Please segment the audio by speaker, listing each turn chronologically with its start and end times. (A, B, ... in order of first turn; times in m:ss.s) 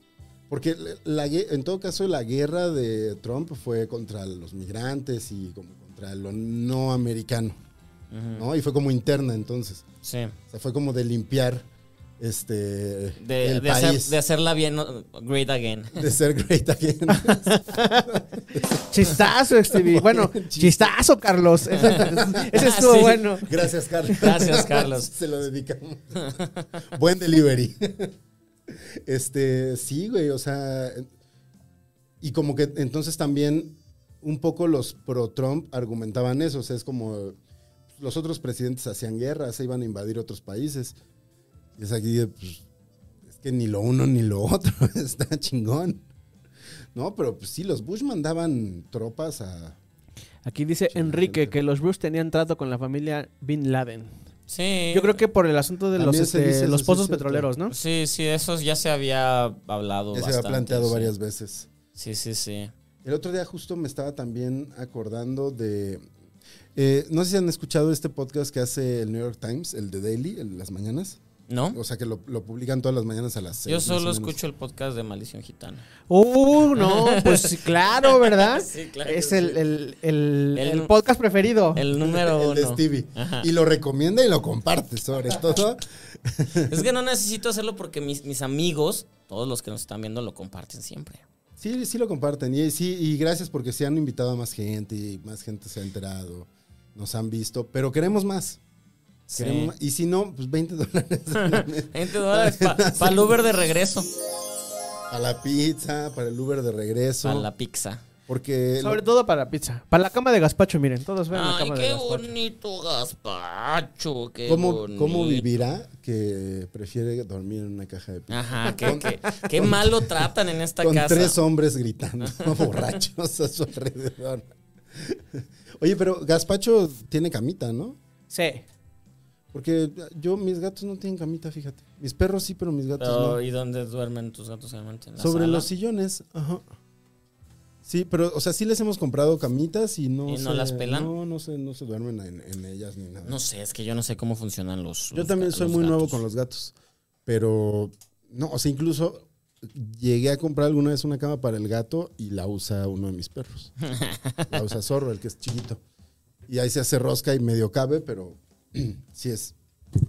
0:00.5-0:07.6 A
0:08.1-0:08.4 B
0:08.3-0:09.8 A
0:10.0-0:10.3 B
0:10.5-0:11.7 A
0:12.2-0:14.2 A
0:13.2-0:16.0 B
0:15.9-0:20.9 A
0:17.1-0:18.1 C
0:18.8-0:23.5 C
0:21.7-0:22.7 A
0:22.5-0:23.3 B
0:23.4-0:28.1 A
0:24.1-0:25.1 B
0:26.2-0:26.6 B
0:28.7-0:31.1 A
0:32.2-0:37.4 A
0:38.0-0:41.0 A
0:41.8-0:42.6 A
0:43.3-0:46.0 A
0:46.9-0:49.8 A
0:50.4-0:54.2 C
0:50.9-0:51.6 A
0:54.5-0:55.1 B
0:54.9-0:57.7 C
0:56.0-0:57.5 A
0:57.7-1:01.1 B
1:00.1-1:01.7 A
1:02.0-1:02.7 B
1:03.0-1:06.1 A
1:06.7-1:11.2 A
1:11.5-1:11.8 B
1:11.7-1:14.4 A
1:13.6-1:15.8 B
1:16.1-1:21.8 C
1:16.7-1:19.6 B
1:20.6-1:20.9 B
1:21.7-1:23.5 B
1:21.9-1:26.8 A
1:26.6-1:31.2 B
1:31.6-1:38.6 A
1:39.3-1:39.7 B
1:39.3-1:43.4 A
1:41.3-1:44.1 B
1:45.1-1:47.5 A
1:47.2-1:48.0 B
1:48.3-1:49.0 A
1:48.8-1:52.3 C
1:51.3-1:55.5 B
1:54.5-2:08.0 A
1:58.3-2:01.4 B
2:02.3-2:02.8 B
2:08.3-2:08.6 C
2:09.5-2:13.4 A
2:13.0-2:15.7 B
2:15.2-2:16.6 A
2:17.8-2:23.4 A
2:20.3-2:21.1 B
2:23.3-2:26.2 B
2:25.1-2:26.7 A
2:27.3-2:33.7 A
2:33.9-2:34.6 B
2:34.5-2:35.8 A
2:36.5-2:39.6 A